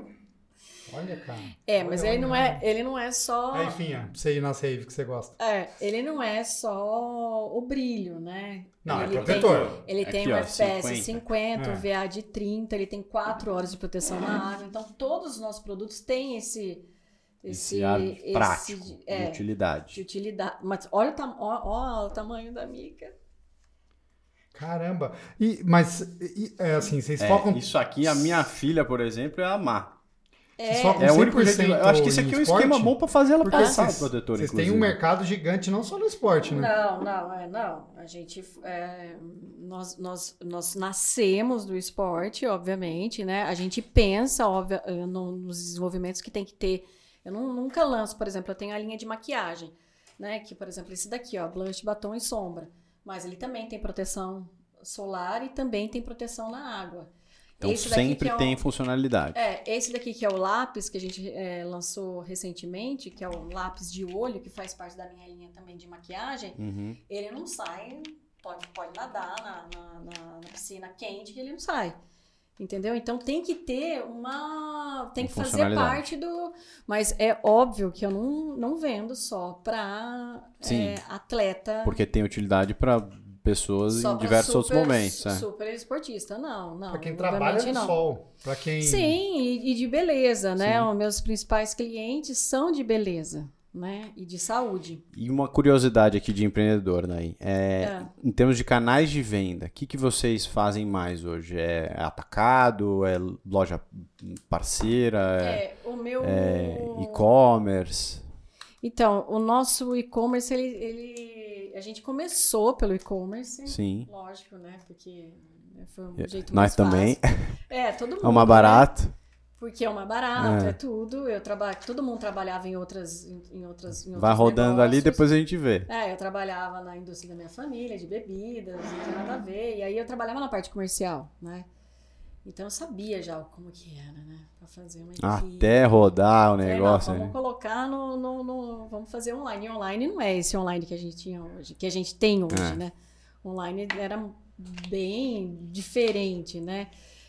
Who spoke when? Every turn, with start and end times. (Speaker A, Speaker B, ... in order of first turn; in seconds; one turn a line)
Speaker A: 0.9-2.6
Speaker B: 1.7-3.8
Speaker A: 3.5-5.4
Speaker B: 5.4-16.9
Speaker A: 8.8-9.8
Speaker C: 8.9-11.2
Speaker A: 11.6-11.9
Speaker B: 17.4-23.1
Speaker C: 17.5-20.0
Speaker A: 24.5-27.6
Speaker C: 27.2-29.9
Speaker B: 30.6-31.1
Speaker A: 30.7-32.9
Speaker C: 31.0-34.9
Speaker A: 33.5-36.7
Speaker B: 33.5-33.8
Speaker B: 36.5-58.6
Speaker C: 57.6-59.4
Speaker B: 59.3-72.0
Speaker C: 66.6-67.0
Speaker B: 72.6-82.0
Speaker C: 75.2-76.0
Speaker C: 80.6-81.0
Speaker C: 81.8-85.5
Speaker B: 83.9-88.0
Speaker A: 86.9-89.2
Speaker B: 88.8-95.0
Speaker C: 90.6-90.9
Speaker C: 95.1-105.6
Speaker B: 97.8-98.1
Speaker B: 105.4-107.2
Speaker C: 106.2-108.2
Speaker B: 108.8-117.2
Speaker C: 113.7-114.1
Speaker C: 116.2-117.5
Speaker B: 117.7-118.9
Speaker C: 118.2-119.1
Speaker B: 119.6-125.2
Speaker C: 120.4-120.8
Speaker C: 124.2-125.9
Speaker B: 125.9-131.7
Speaker B: 132.4-136.1
Speaker C: 135.2-137.3
Speaker B: 136.6-146.9
Speaker C: 142.5-142.8